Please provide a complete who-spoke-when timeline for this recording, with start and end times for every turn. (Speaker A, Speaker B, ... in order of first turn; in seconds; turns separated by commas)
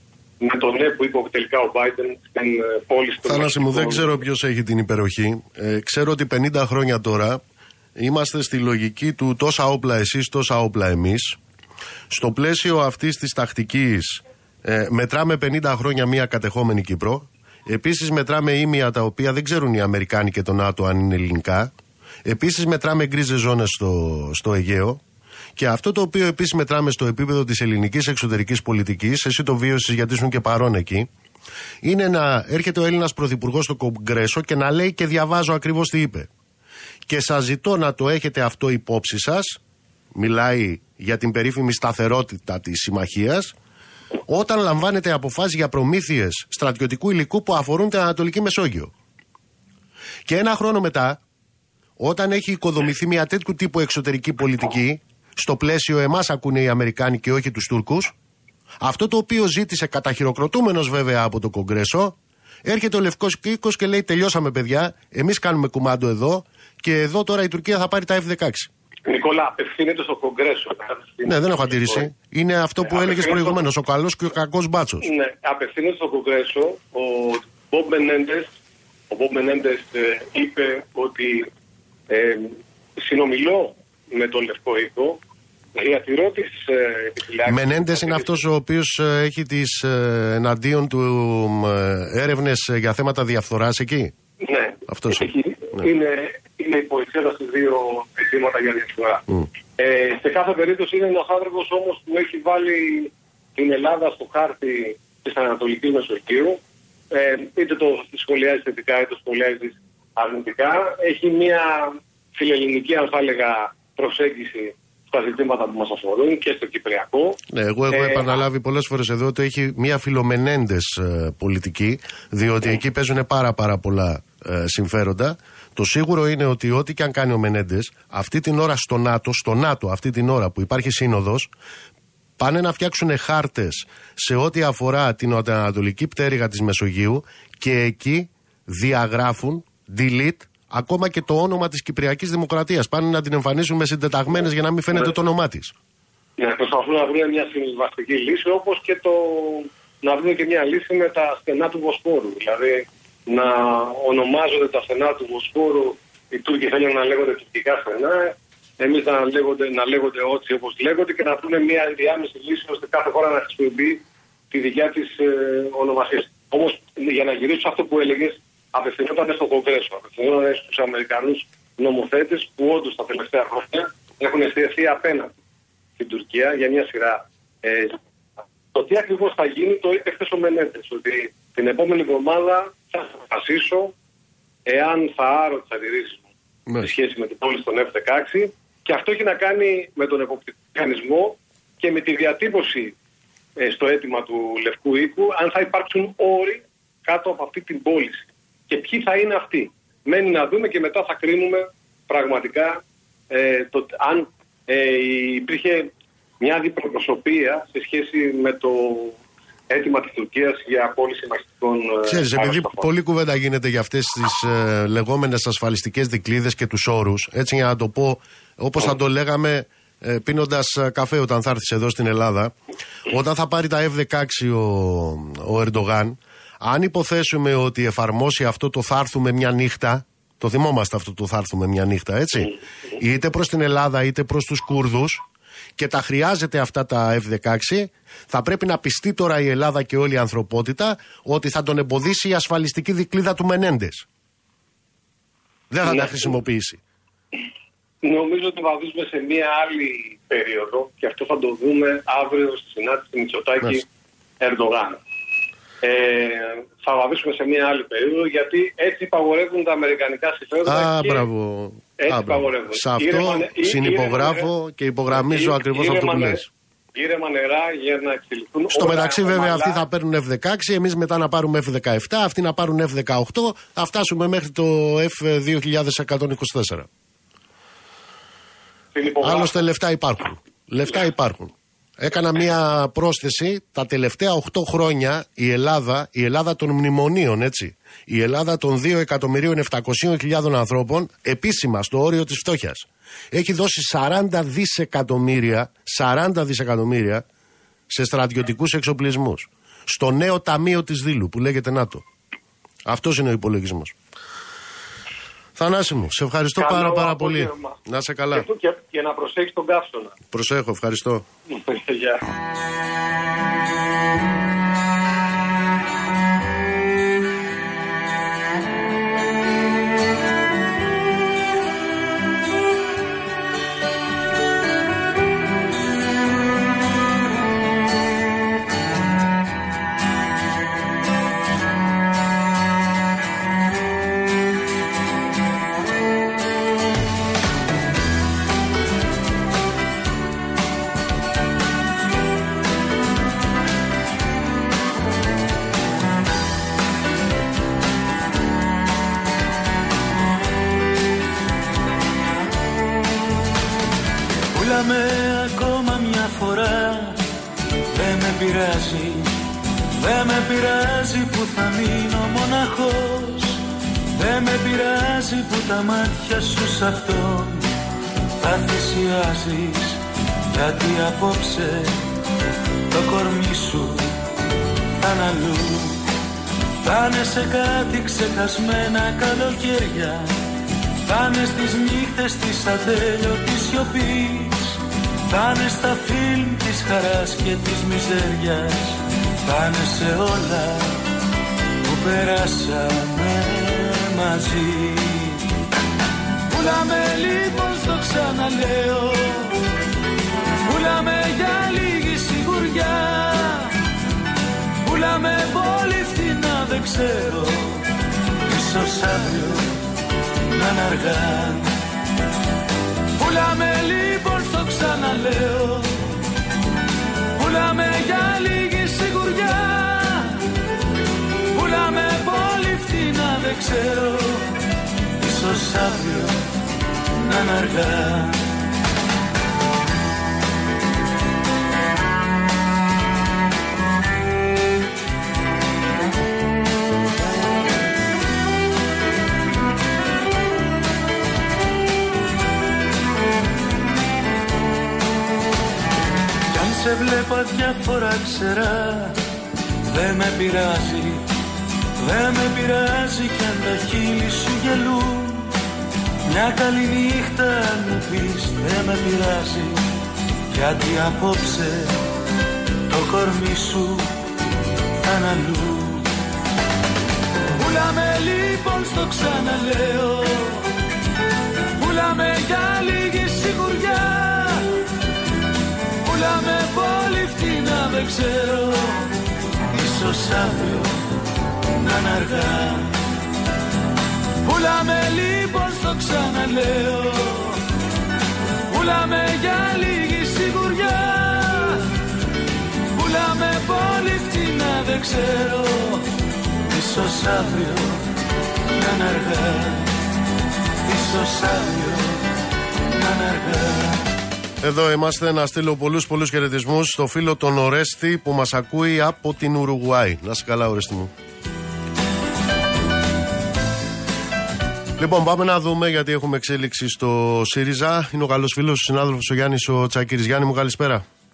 Speaker A: 0.4-4.1, Speaker B: 3.2-7.4, Speaker B: 8.0-11.4, Speaker B: 12.1-21.7, Speaker B: 22.2-25.0, Speaker B: 25.6-31.1, Speaker B: 31.8-36.3, Speaker B: 37.1-39.6, Speaker B: 40.1-43.5, Speaker B: 44.3-48.9, Speaker B: 50.2-51.2, Speaker B: 52.0-58.1, Speaker B: 58.8-68.7, Speaker A: 69.1-72.1, Speaker B: 71.2-75.1, Speaker A: 72.8-73.6, Speaker A: 75.0-78.5, Speaker A: 79.1-81.5, Speaker A: 82.1-85.2, Speaker A: 85.7-88.3, Speaker B: 87.5-94.1, Speaker A: 94.4-99.2, Speaker B: 94.9-95.9, Speaker A: 99.8-106.6, Speaker A: 107.1-117.4, Speaker B: 117.5-131.5, Speaker A: 117.9-118.3, Speaker B: 132.4-145.7, Speaker A: 146.4-175.3, Speaker A: 176.0-178.0, Speaker A: 178.7-183.9, Speaker A: 184.7-186.2, Speaker A: 186.8-192.9, Speaker A: 193.6-202.8, Speaker A: 203.3-209.2, Speaker A: 209.7-212.9, Speaker B: 212.0-222.5, Speaker B: 223.1-235.2, Speaker B: 235.8-244.1, Speaker B: 245.7-246.8, Speaker A: 245.8-246.3, Speaker A: 248.0-253.8, Speaker A: 254.4-255.0, Speaker A: 255.8-261.2, Speaker B: 260.6-266.5, Speaker A: 262.0-264.5, Speaker A: 265.1-266.4, Speaker A: 266.9-269.8, Speaker B: 268.7-276.9, Speaker A: 278.9-279.6, Speaker B: 279.2-297.2, Speaker B: 297.9-302.0, Speaker B: 302.9-303.9, Speaker B: 305.6-308.5, Speaker A: 306.6-307.8, Speaker A: 308.3-310.1, Speaker B: 310.3-311.2, Speaker A: 311.5-312.2, Speaker C: 355.4-356.9, Speaker C: 358.1-358.9, Speaker C: 360.7-363.2, Speaker C: 364.7-365.5, Speaker C: 366.1-367.5, Speaker C: 368.5-369.7, Speaker C: 370.7-371.4, Speaker C: 373.0-373.9, Speaker C: 375.1-375.7, Speaker C: 377.0-380.2, Speaker C: 381.1-384.5, Speaker C: 385.4-388.7, Speaker C: 389.5-390.8, Speaker C: 391.9-395.2, Speaker C: 396.5-399.2, Speaker C: 400.7-403.3, Speaker C: 404.9-407.5, Speaker C: 408.6-409.6, Speaker C: 410.6-411.6, Speaker C: 413.2-415.9, Speaker C: 417.4-420.2, Speaker C: 421.6-424.4, Speaker C: 425.2-426.3, Speaker C: 427.2-428.3, Speaker C: 446.5-449.1, Speaker C: 449.9-451.2, Speaker C: 452.1-455.5, Speaker C: 456.3-459.8, Speaker C: 460.6-461.9, Speaker C: 462.9-464.1, Speaker C: 465.1-466.0, Speaker C: 467.6-470.6, Speaker C: 471.8-474.6, Speaker C: 476.1-479.0, Speaker C: 479.8-480.9, Speaker C: 481.8-482.9, Speaker C: 484.4-487.6, Speaker C: 488.7-491.8, Speaker C: 492.9-496.0, Speaker C: 496.7-498.0, Speaker C: 498.8-499.9, Speaker C: 500.9-502.2, Speaker C: 503.0-503.9, Speaker B: 504.6-511.1, Speaker B: 515.0-521.0